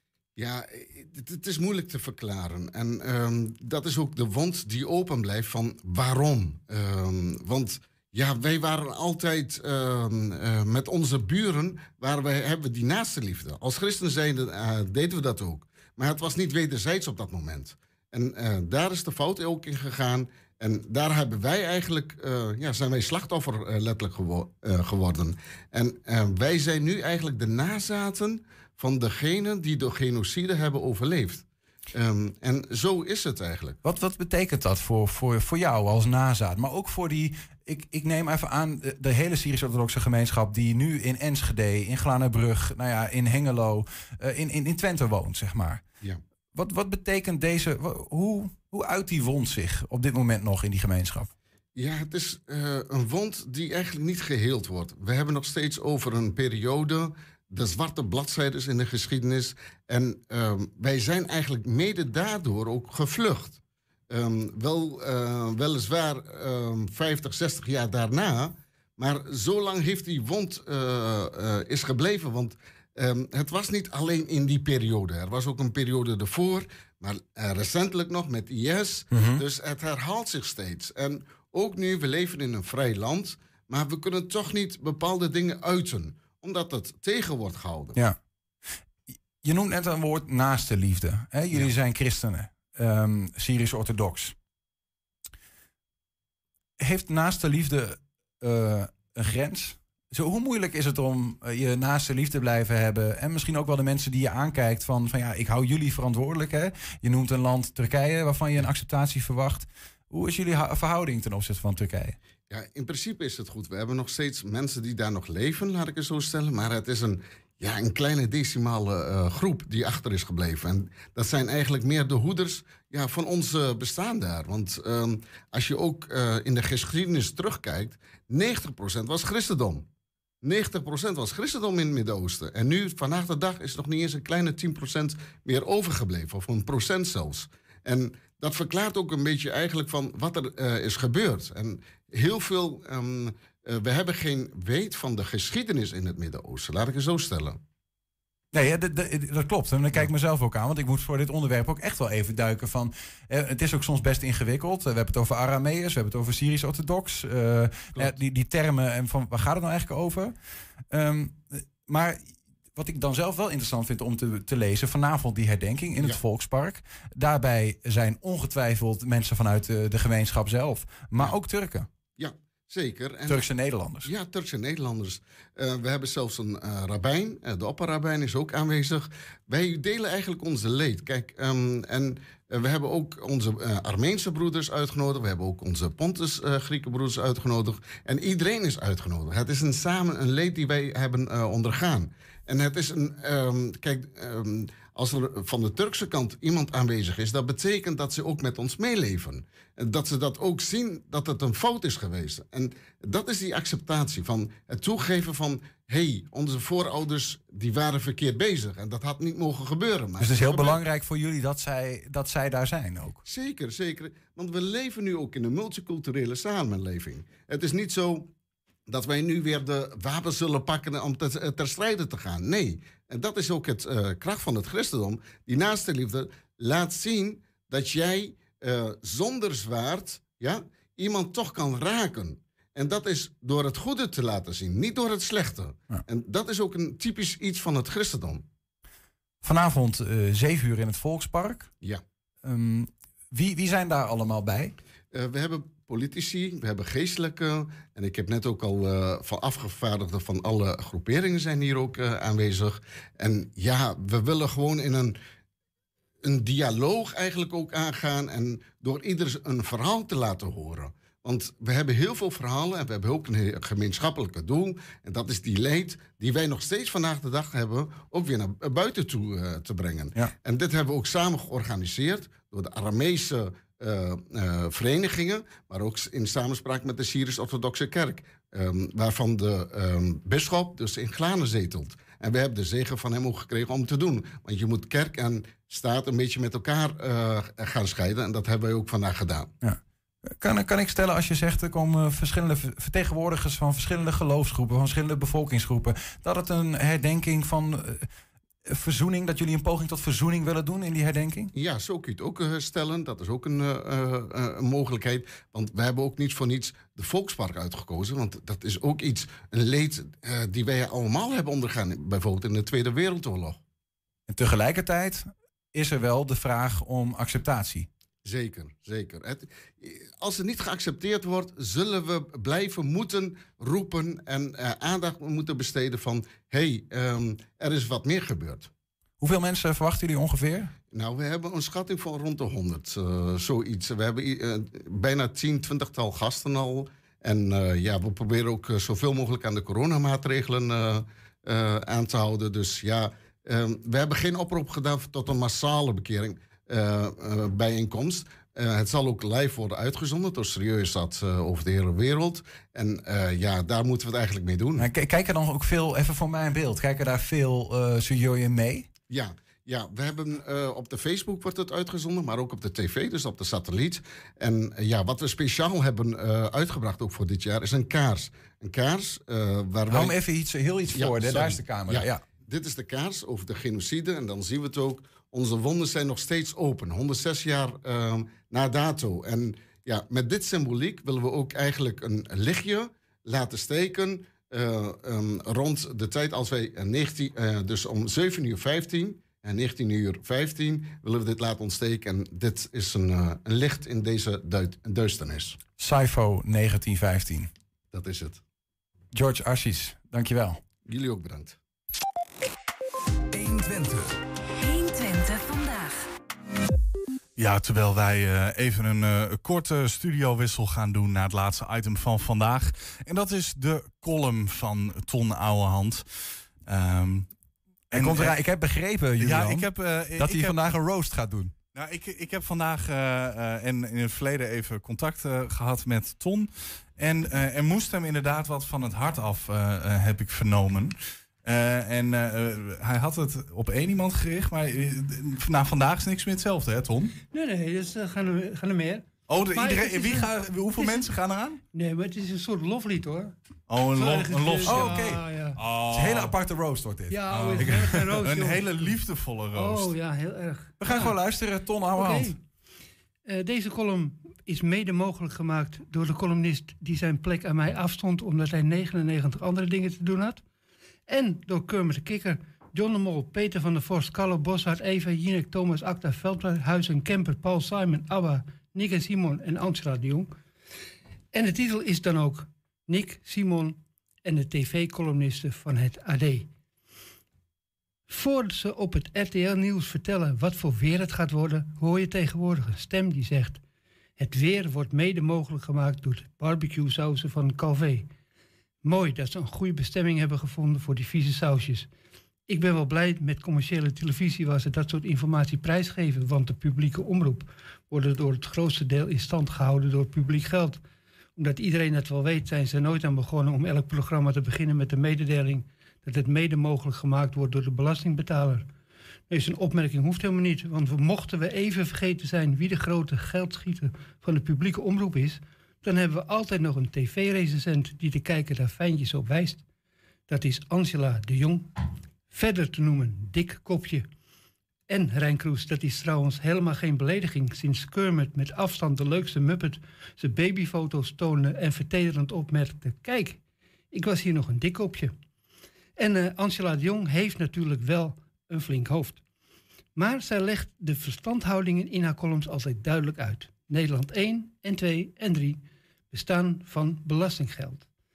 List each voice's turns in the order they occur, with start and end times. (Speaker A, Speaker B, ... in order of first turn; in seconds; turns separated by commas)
Speaker A: 0.4-33.8, Speaker B: 33.8-45.9, Speaker B: 46.5-51.3, Speaker A: 51.8-88.0, Speaker B: 79.1-79.4, Speaker B: 89.4-94.3, Speaker B: 96.8-112.2, Speaker A: 112.5-129.8, Speaker A: 130.4-147.6, Speaker B: 148.5-160.3, Speaker B: 160.9-171.9, Speaker A: 172.2-173.4, Speaker B: 173.3-174.1, Speaker A: 174.1-210.8, Speaker B: 210.2-213.2, Speaker A: 213.2-218.3, Speaker A: 218.9-238.4, Speaker B: 239.4-241.7, Speaker B: 242.4-244.7, Speaker A: 245.1-255.2, Speaker A: 256.2-289.5, Speaker B: 289.6-298.1, Speaker B: 298.7-301.5, Speaker A: 301.6-313.6, Speaker B: 314.3-317.9, Speaker A: 318.2-328.7, Speaker B: 329.2-330.7, Speaker A: 330.9-354.9, Speaker B: 354.8-358.9, Speaker A: 359.1-370.1, Speaker B: 369.9-372.2, Speaker A: 370.9-395.6, Speaker B: 395.8-397.5, Speaker A: 397.9-398.4, Speaker B: 399.1-400.6, Speaker A: 400.9-401.6, Speaker C: 403.3-403.7, Speaker C: 404.6-406.1, Speaker D: 407.4-416.0, Speaker D: 416.7-417.3, Speaker D: 417.9-418.4, Speaker B: 417.9-421.5, Speaker D: 419.2-420.6, Speaker D: 421.7-437.1, Speaker E: 437.3-441.1, Speaker D: 439.3-441.6, Speaker E: 441.7-443.3, Speaker D: 443.7-446.4, Speaker E: 444.0-445.6, Speaker B: 444.6-445.2, Speaker B: 445.9-447.9, Speaker E: 447.1-448.9, Speaker D: 447.3-450.0, Speaker E: 449.5-451.2, Speaker B: 450.8-452.3, Speaker E: 451.9-452.4, Speaker E: 453.3-460.4, Speaker E: 461.1-470.3, Speaker E: 471.3-476.5, Speaker E: 478.1-483.6, Speaker E: 484.2-488.1, Speaker E: 488.8-491.9, Speaker E: 492.5-500.8, Speaker E: 501.4-508.7, Speaker E: 509.3-519.6, Speaker E: 520.3-521.7, Speaker E: 522.3-524.1, Speaker E: 524.9-533.4, Speaker E: 533.9-535.1, Speaker E: 536.0-539.2, Speaker E: 540.0-547.9